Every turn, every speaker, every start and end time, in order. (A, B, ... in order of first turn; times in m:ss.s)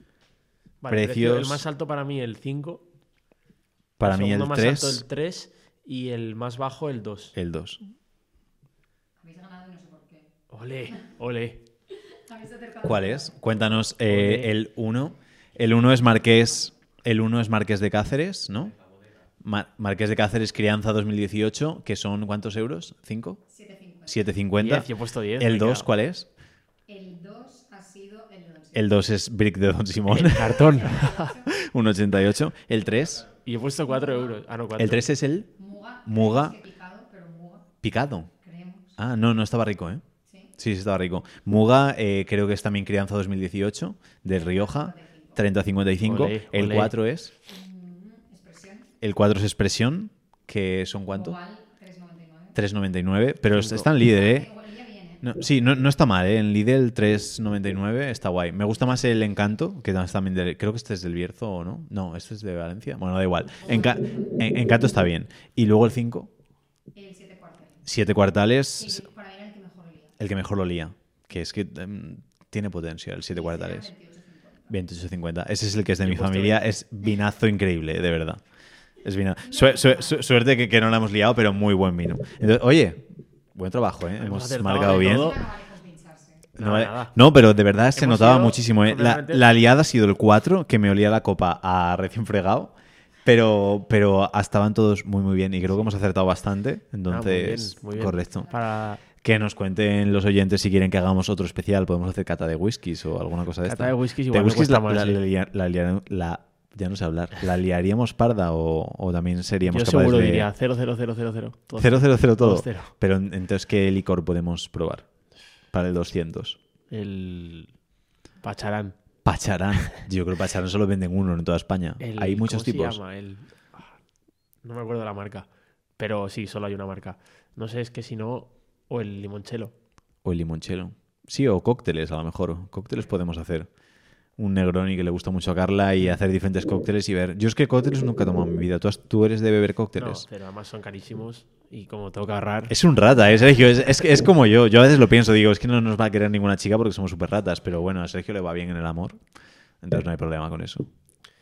0:00.8-0:02.8 A
0:00.9-0:01.6 B
0:04.0-0:05.0 B
0:04.0-0:07.4 A
0:07.4-0:07.8 B
0:09.2-0:10.3 C
0:10.5-0:11.6 A
0:11.9-0:13.5 C
0:12.8-0:18.8 B
0:14.0-0:14.5 A
0:19.4-0:23.4 B
0:23.5-0:24.2 C
0:24.1-0:26.3 B
0:24.6-0:25.9 A
0:26.8-0:29.0 C
0:28.7-0:33.3 B
0:30.1-0:31.3 A
0:30.6-0:31.6 C
0:33.4-0:35.1 A
0:33.8-0:34.4 C
0:34.8-0:35.5 B
0:35.6-0:37.7 C
0:36.0-0:36.5 B
0:37.8-0:38.3 B
0:38.3-0:39.0 C
0:39.0-0:40.0 B
0:40.6-0:47.3 B
0:44.3-0:45.4 C
0:46.0-0:46.9 A
0:47.4-0:48.9 C
0:49.0-0:51.4 B
0:51.1-0:52.6 C
0:52.5-0:54.5 B
0:53.5-0:53.9 A
0:54.0-0:55.3 C
0:55.2-1:06.3 B
1:03.6-1:04.4 C
1:06.9-1:07.8 C
1:07.8-1:09.0 B
1:08.8-1:10.2 C
1:10.2-1:13.9 B
1:13.3-1:14.7 C
1:14.7-1:18.4 B
1:16.0-1:16.7 A
1:19.0-1:25.4 B
1:19.4-1:20.2 C
1:24.2-1:25.4 A
1:25.0-1:26.5 C
1:26.6-1:32.7 B
1:26.6-1:27.1 A
1:27.9-1:29.4 A
1:33.2-1:38.5 B
1:37.1-1:39.0 A
1:38.3-1:38.6 C
1:39.2-1:50.5 B
1:43.6-1:45.2 A
1:49.6-1:52.9 A
1:51.8-1:55.0 B
1:55.7-1:56.6 B
1:56.9-1:57.7 A
1:58.4-1:59.0 A
1:59.2-2:03.0 B
2:02.0-2:04.0 A
2:04.6-2:05.5 A
2:06.0-2:09.7 A
2:10.2-2:13.7 B
2:14.4-2:20.3 B
2:20.0-2:22.7 A
2:22.7-2:29.2 B
2:29.8-2:30.9 B